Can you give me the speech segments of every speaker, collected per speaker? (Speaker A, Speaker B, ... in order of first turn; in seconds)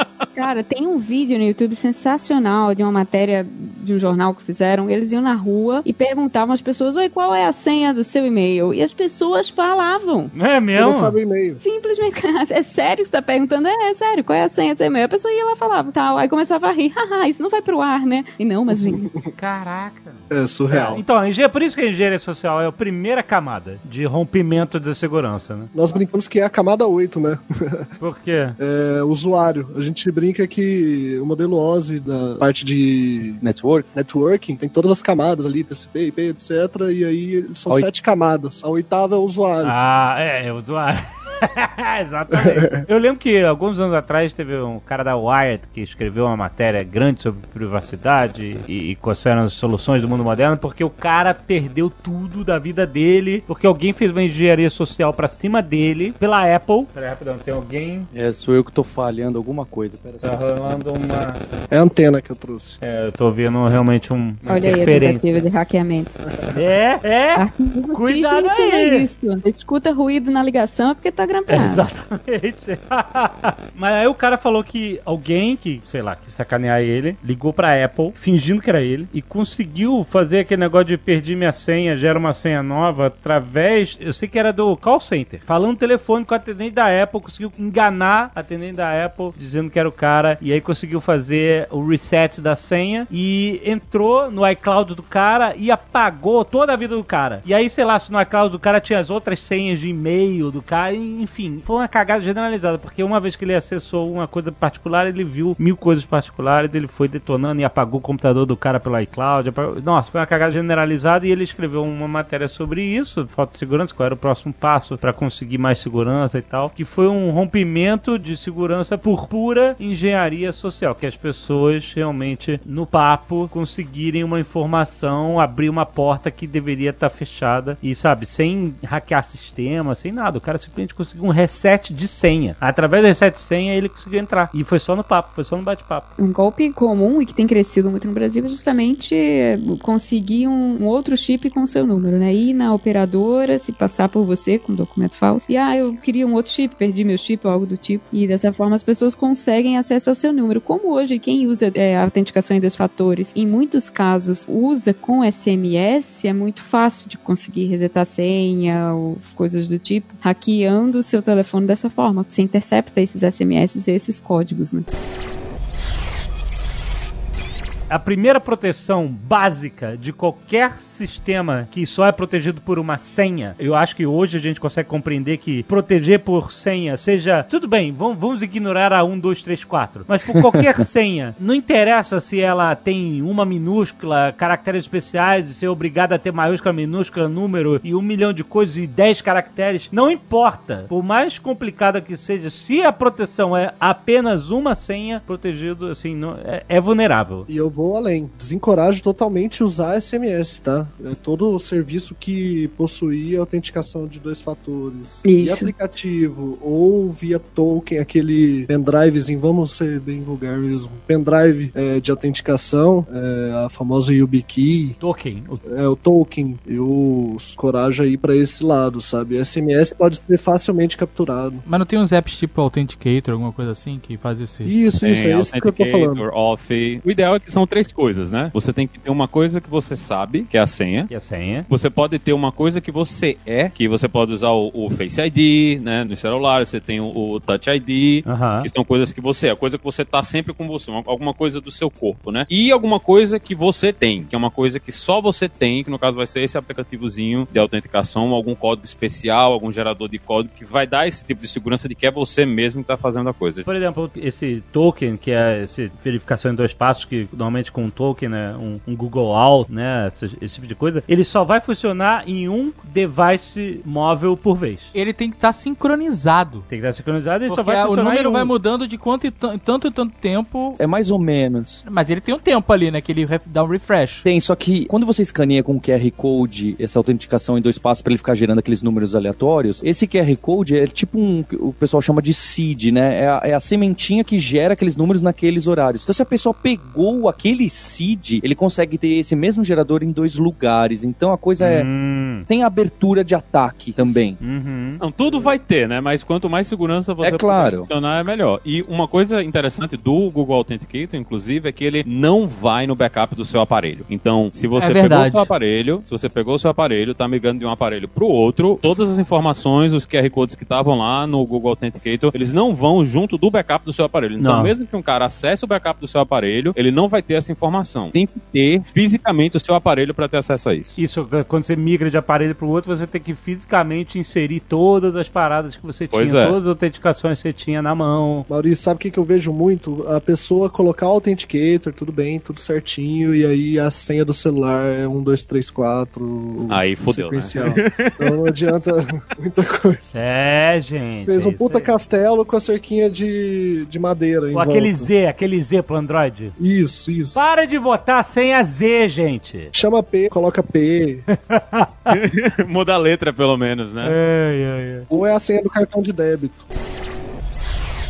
Speaker A: 0.3-10.3, 11.6-19.1, 64.5-66.1, 67.4-71.9, 136.2-164.9, 205.2-205.7
Speaker B: 10.3-11.2, 19.4-26.0, 28.0-28.6, 39.6-58.1, 60.2-61.4, 62.8-65.4, 66.5-69.1, 71.5-136.1, 167.9-197.5, 215.0-215.6, 231.1-231.7, 238.2-238.7, 253.7-264.9, 266.7-268.5, 291.6-292.4, 294.4-295.6, 314.4-314.7, 321.0-328.5, 340.1-341.9, 344.5-346.6, 347.4-349.7, 351.3-352.1, 354.0-355.1
Speaker C: 10.8-11.6, 18.7-19.3, 20.3-21.0, 25.7-27.9, 28.6-33.4, 33.9-39.8, 42.3-42.9, 61.7-62.8, 197.5-215.0, 215.6-221.6, 224.7-226.2, 328.5-340.1, 341.3-345.1, 346.6-347.4, 349.7-351.2, 355.1-356.6
Speaker D: 33.4-33.9, 58.1-60.6, 270.8-271.8, 274.2-291.9, 292.5-294.4, 297.2-297.9
Speaker E: 221.7-224.7, 264.9-266.6, 267.5-270.8, 271.9-274.2, 304.8-305.5
Speaker F: 225.0-231.1, 231.7-253.7, 295.0-321.0, 326.1-326.6, 336.7-338.4, 352.1-354.2